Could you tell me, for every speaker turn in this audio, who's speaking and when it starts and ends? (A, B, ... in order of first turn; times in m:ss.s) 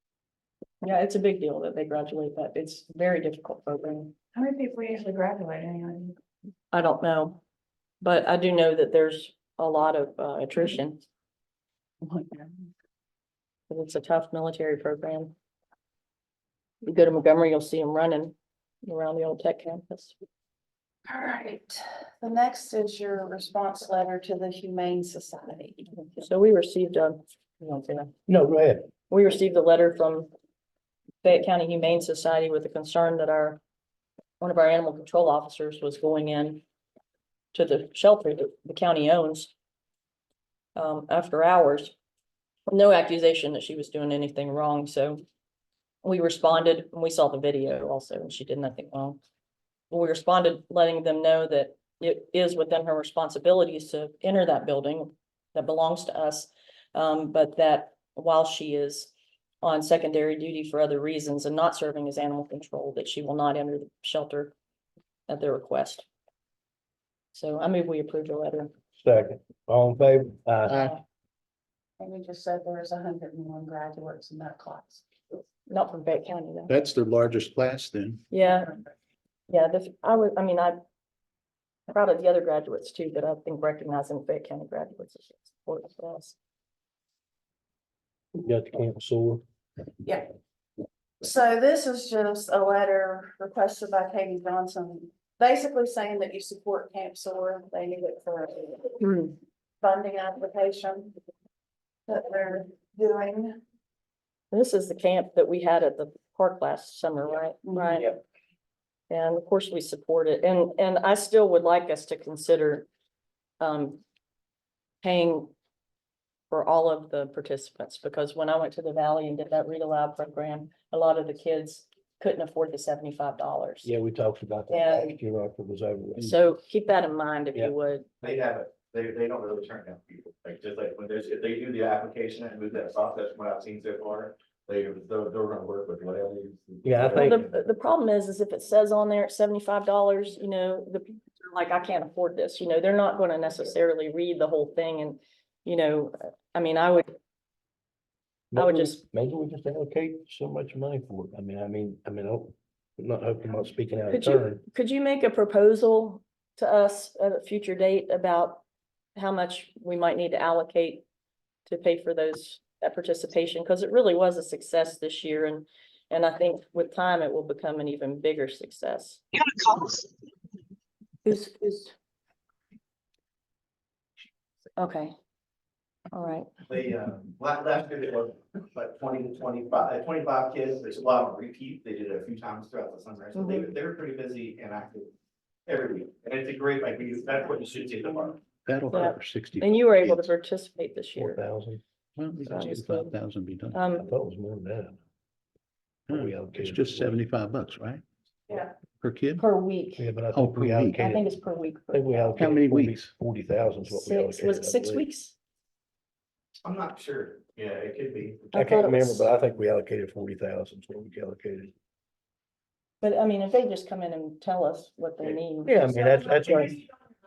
0:00.8-0:04.1 A
0:04.4-0:06.2 B
0:06.7-0:07.4 A
0:08.0-0:11.0 A
0:12.0-0:12.7 B
0:13.7-0:15.3 A
0:16.8-0:18.3 A
0:18.8-0:20.2 A
0:21.1-0:25.9 B
0:25.9-0:28.1 A
0:28.3-0:28.9 C
0:29.1-0:30.3 A
0:31.2-0:33.6 A
0:34.4-0:36.6 A
0:37.5-0:39.5 A
0:40.8-0:41.9 A
0:42.7-0:45.2 A
0:46.0-0:49.2 A
0:49.9-1:04.6 A
1:05.3-1:06.1 A
1:07.3-1:08.7 A
1:09.0-1:10.8 C
1:10.7-1:11.0 D
1:10.7-1:11.0 A
1:12.0-1:15.0 B
1:15.7-1:16.7 A
1:16.7-1:18.2 D
1:18.3-1:18.8 A
1:19.5-1:20.8 A
1:21.9-1:26.4 A
1:28.4-1:29.4 C
1:31.2-1:39.0 B
1:39.0-1:39.3 A
1:39.8-1:41.2 B
1:42.1-1:43.6 B
1:44.5-1:48.1 A
1:47.6-1:48.1 B
1:49.1-1:52.9 A
1:53.6-1:54.0 A
1:55.0-1:55.5 A
1:56.5-2:03.9 A
2:03.8-2:06.4 C
2:04.7-2:05.2 A
2:06.2-2:08.1 A
2:08.2-2:17.6 E
2:16.8-2:17.5 C
2:17.2-2:27.1 A
2:28.5-2:34.6 C
2:28.5-2:29.0 A
2:34.1-2:38.6 A
2:39.2-2:41.0 A
2:41.7-2:49.2 A
2:51.2-2:51.9 A
2:54.8-2:55.1 A
2:56.1-2:56.5 A
2:56.7-3:05.1 E
3:03.4-3:03.7 A
3:05.7-3:08.4 E
3:08.6-3:10.1 D
3:08.9-3:11.4 A
3:11.2-3:11.8 C
3:12.2-3:13.8 D
3:12.5-3:13.2 A
3:13.7-3:14.1 A
3:14.0-3:15.0 C
3:16.1-3:17.2 C
3:16.1-3:18.0 D
3:19.0-3:19.4 D
3:19.4-3:20.1 A
3:20.0-3:25.1 C
3:20.3-3:21.0 D
3:21.0-3:22.5 A
3:22.4-3:23.0 D
3:23.9-3:25.4 A
3:26.6-3:28.5 E
3:28.5-3:29.3 A
3:28.5-3:31.7 C
3:33.0-3:35.8 A
3:35.6-3:36.8 C